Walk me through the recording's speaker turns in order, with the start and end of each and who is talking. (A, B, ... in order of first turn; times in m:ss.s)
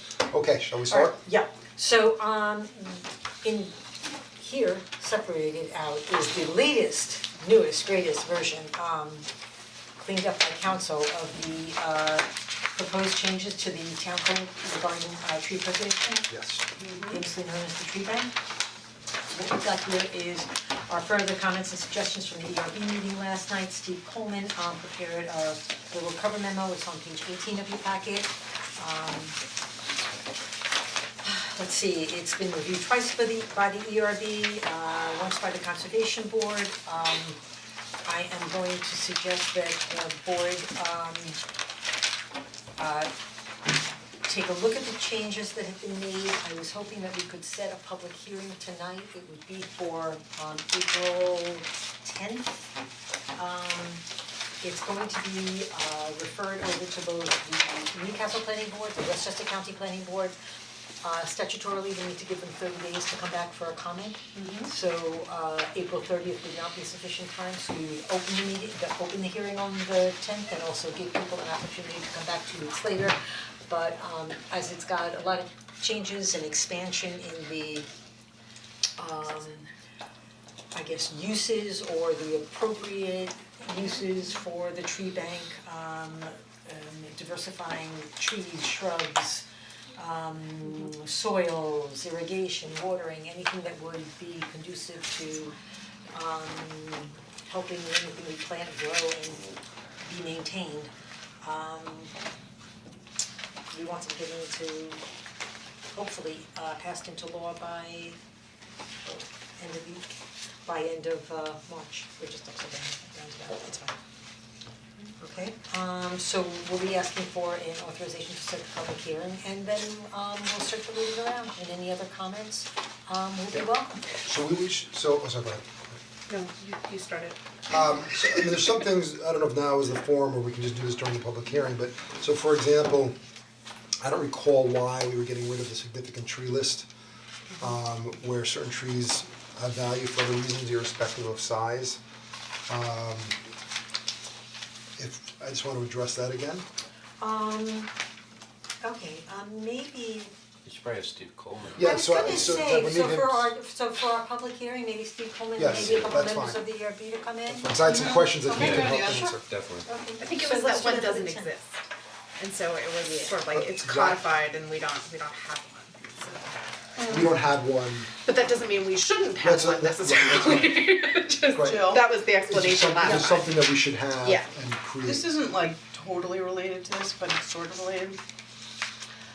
0:00.3-0:01.2 A
0:00.9-0:03.8 B
0:04.3-0:09.3 B
0:10.0-0:16.3 B
0:16.3-0:16.6 A
0:16.8-0:17.2 C
0:17.1-0:18.3 B
0:19.3-0:29.4 B
0:31.2-0:37.4 B
0:38.0-0:41.4 B
0:42.8-0:43.1 B
0:44.2-0:52.7 B
0:53.3-0:54.0 B
0:54.6-1:00.3 B
1:01.0-1:17.9 B
1:04.3-1:04.7 C
1:19.0-1:19.7 B
1:20.7-1:35.5 B
1:36.1-1:40.9 B
1:41.4-1:42.1 B
1:43.7-1:45.0 B
1:45.9-1:48.2 B
1:49.0-1:54.0 B
1:55.2-2:04.0 B
2:04.2-2:06.0 A
2:06.3-2:07.4 D
2:07.7-2:13.2 A
2:14.0-2:16.9 A
2:17.6-2:22.0 A
2:22.7-2:23.4 A
2:25.0-2:26.6 A
2:27.2-2:27.9 B
2:28.8-2:30.3 B
2:30.6-2:32.7 E
2:31.7-2:33.5 A
2:31.8-2:41.6 B
2:35.6-2:36.6 A
2:35.7-2:36.1 E
2:37.5-2:39.3 A
2:38.4-2:39.9 E
2:40.2-2:41.7 D
2:42.4-2:46.5 D
2:43.0-2:43.3 B
2:43.5-2:44.2 A
2:47.0-2:47.3 C
2:47.1-2:48.1 A
2:48.2-2:53.6 D
2:49.4-2:51.0 A
2:51.5-2:55.3 A
2:51.6-2:52.1 C
2:54.2-2:54.5 D
2:55.0-2:58.2 C